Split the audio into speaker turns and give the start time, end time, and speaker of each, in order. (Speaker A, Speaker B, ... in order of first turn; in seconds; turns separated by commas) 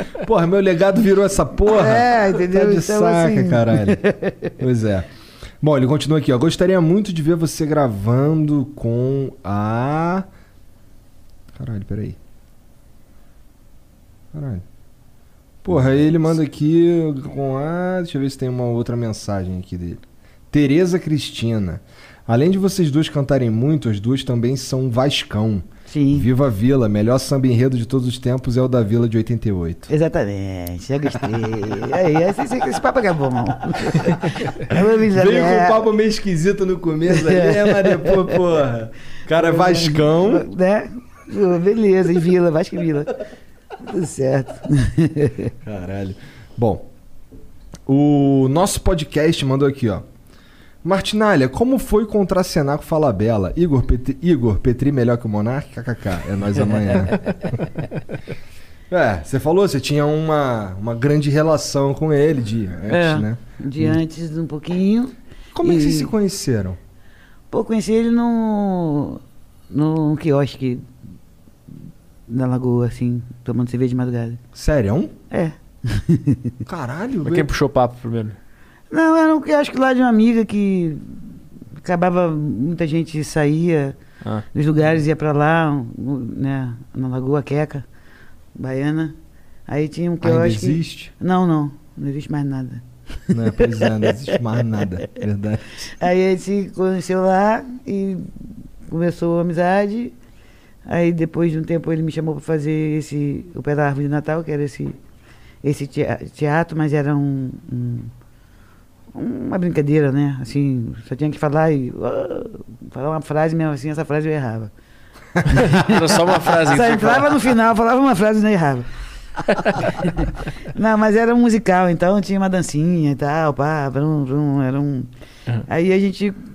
Speaker A: 0.2-4.0, Speaker B: 1.7-4.5, Speaker A: 4.6-5.1, Speaker A: 5.6-10.3, Speaker A: 11.5-12.2, Speaker A: 14.3-14.6, Speaker A: 15.6-29.9, Speaker B: 25.9-26.3, Speaker B: 29.9-35.8, Speaker A: 35.0-40.5, Speaker B: 37.1-38.4, Speaker B: 39.3-43.2, Speaker B: 43.8-45.5, Speaker A: 45.6-46.9, Speaker A: 47.9-50.1, Speaker A: 50.8-57.8, Speaker A: 58.9-64.0, Speaker B: 62.9-66.1, Speaker A: 65.5-66.8, Speaker B: 67.5-70.9, Speaker B: 72.3-74.4, Speaker A: 74.5-75.1, Speaker B: 75.3-76.6, Speaker A: 76.7-77.5, Speaker C: 77.2-78.4, Speaker B: 78.9-84.0, Speaker B: 84.5-87.8, Speaker B: 88.5-89.2, Speaker B: 89.7-94.2, Speaker A: 90.2-91.1, Speaker A: 93.3-95.7, Speaker B: 95.8-100.2, Speaker B: 100.9-105.0, Speaker B: 105.6-108.1, Speaker B: 109.1-114.7, Speaker B: 115.5-118.9, Speaker C: 115.5-117.5, Speaker B: 119.8-125.1, Speaker B: 125.7-126.4